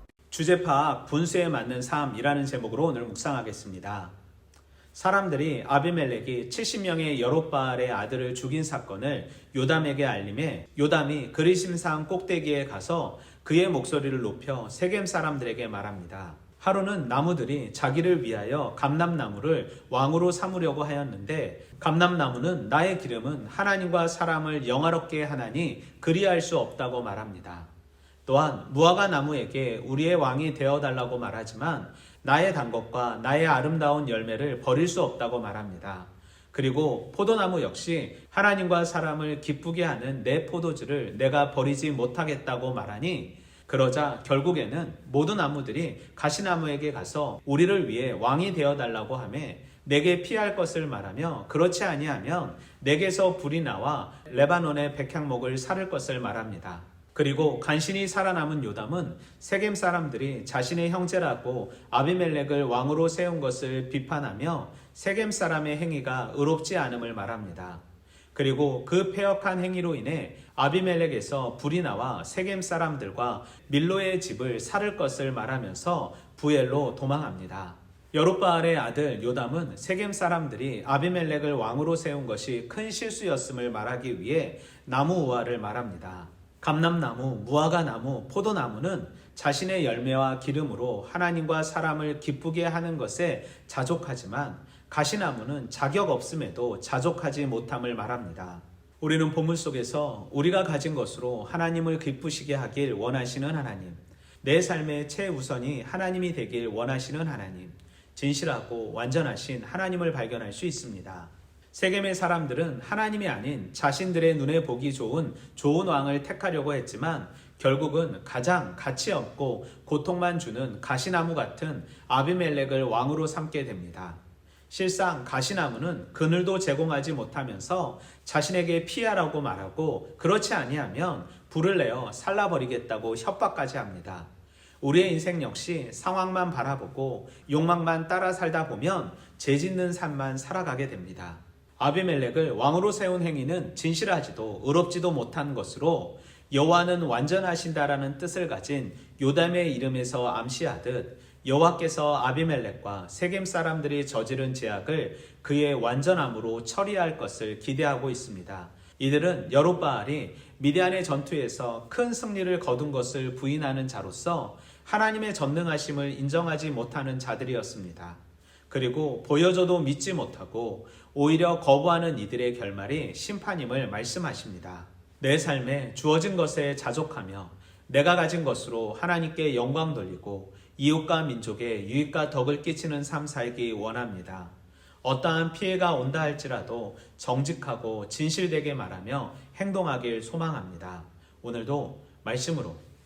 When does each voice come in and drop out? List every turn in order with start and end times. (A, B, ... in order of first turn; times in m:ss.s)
0:00.3-0:04.1 A
0:04.9-0:27.7 A
0:28.3-1:07.8 A
1:08.3-2:14.3 A
2:14.8-3:12.8 A